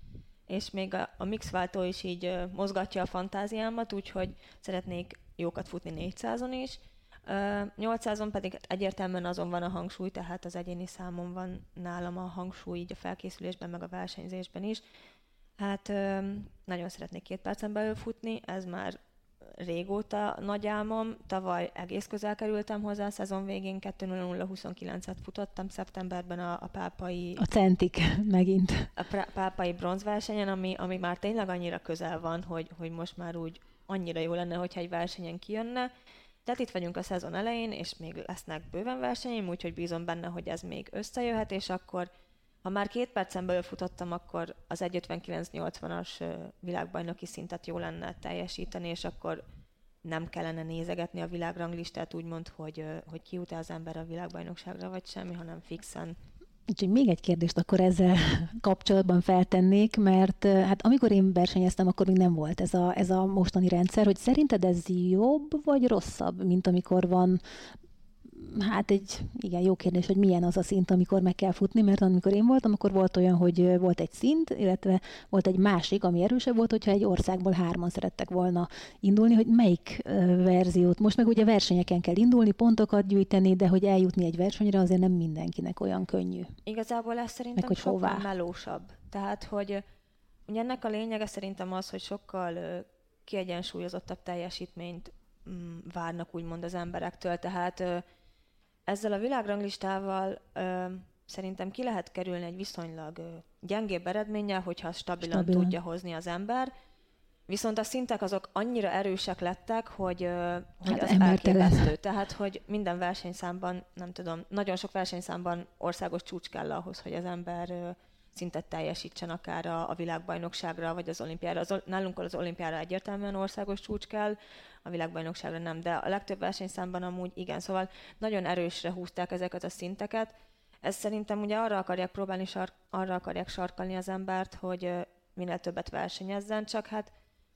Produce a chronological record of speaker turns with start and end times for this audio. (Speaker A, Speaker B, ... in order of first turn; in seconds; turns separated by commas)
Speaker A: 0.5-14.8, Speaker A: 15.6-27.4, Speaker B: 27.4-28.9, Speaker A: 29.0-35.9, Speaker A: 36.5-42.1, Speaker A: 42.6-49.4, Speaker A: 50.0-56.2, Speaker B: 56.7-67.4, Speaker B: 68.3-86.5, Speaker A: 86.7-89.8, Speaker B: 87.6-88.3, Speaker A: 90.5-98.0, Speaker A: 98.9-106.7, Speaker B: 105.2-105.8, Speaker A: 107.5-137.1, Speaker B: 110.9-111.9